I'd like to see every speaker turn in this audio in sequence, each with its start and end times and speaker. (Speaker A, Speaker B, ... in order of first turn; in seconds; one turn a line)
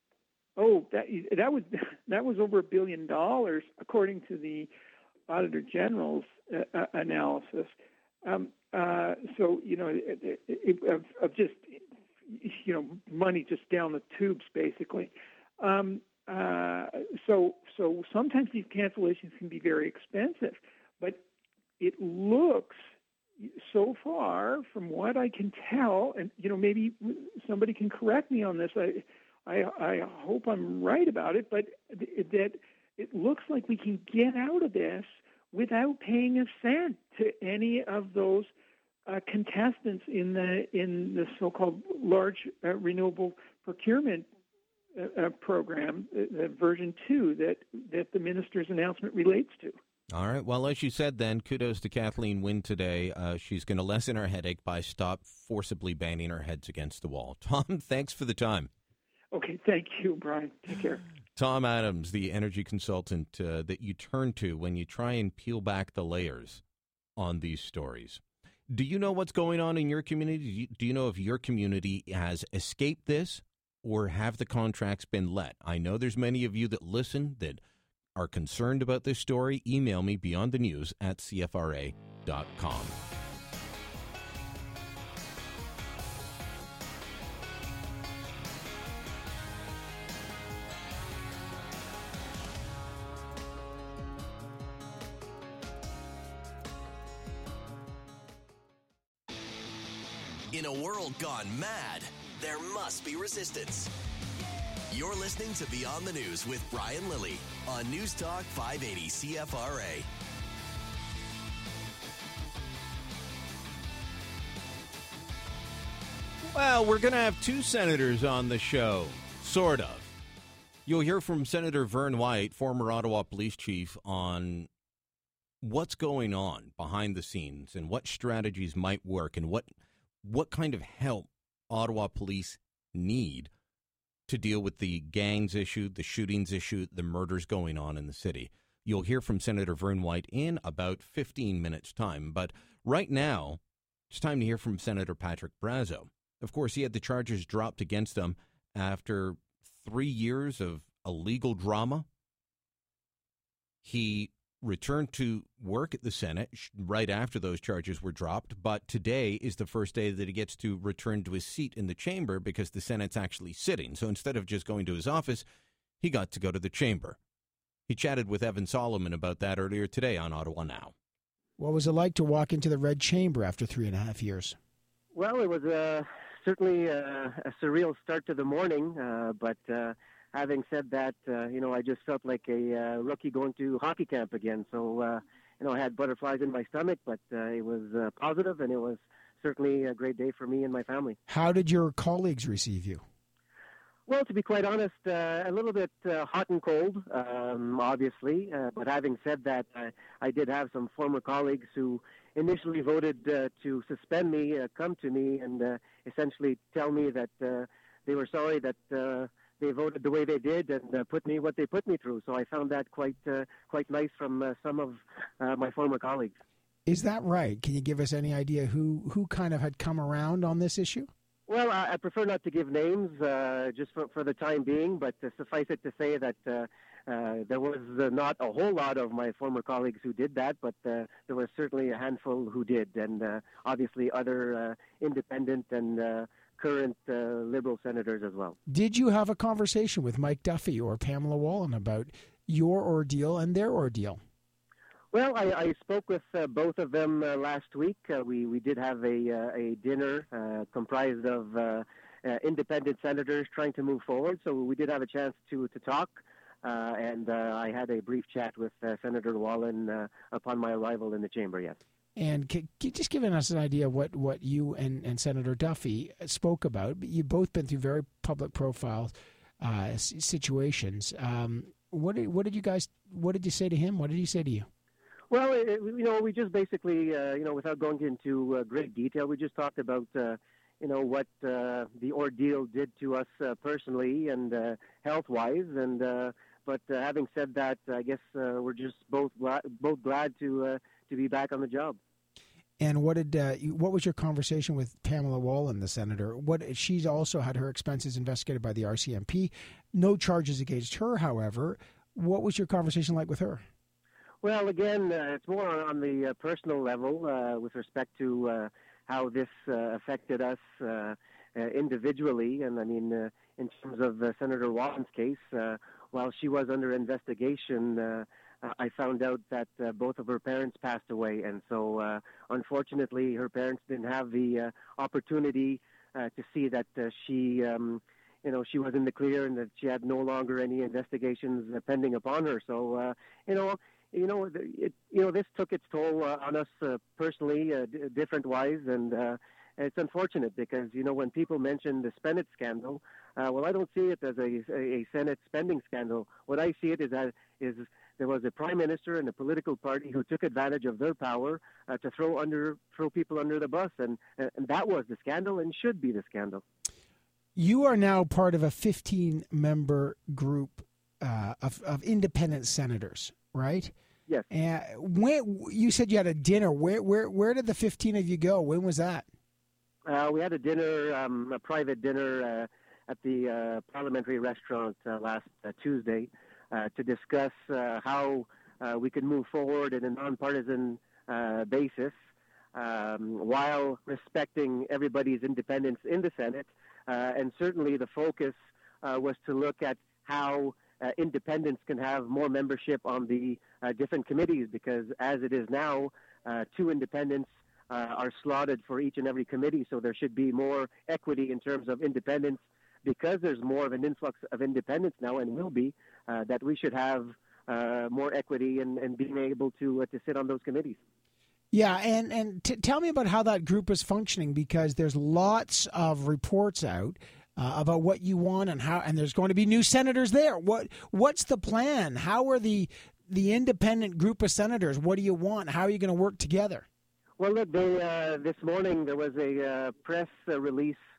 Speaker A: 0.6-4.7
Speaker A: 5.3-21.2
Speaker A: 21.8-22.8
Speaker A: 23.4-38.5
Speaker A: 39.1-44.3
Speaker A: 44.9-49.8
Speaker B: 50.1-58.7
Speaker A: 59.3-61.0
Speaker B: 61.4-66.6
Speaker B: 67.2-77.6
Speaker B: 78.2-83.0
Speaker C: 100.5-103.9
Speaker C: 104.9-110.1
Speaker B: 116.5-120.1
Speaker B: 120.8-124.7
Speaker B: 125.6-129.7
Speaker B: 130.2-133.5
Speaker B: 134.3-152.1
Speaker B: 153.8-165.4
Speaker B: 166.0-167.2
Speaker B: 167.9-170.9
Speaker D: 171.6-174.6
Speaker E: 175.1-191.2
Speaker D: 191.3-193.0
Speaker E: 194.1-216.4
Speaker D: 216.8-221.1
Speaker E: 221.5-238.6
Speaker D: 238.7-244.2
Speaker E: 245.1-261.8
Speaker D: 262.2-274.7
Speaker E: 275.3-292.0
Speaker D: 292.8-303.6
Speaker E: 304.4-356.6
Speaker D: 357.6-363.9
Speaker D: 364.5-369.3
Speaker E: 370.1-382.1
Speaker E: 382.7-411.0
Speaker D: 411.7-426.9
Speaker E: 427.4-431.0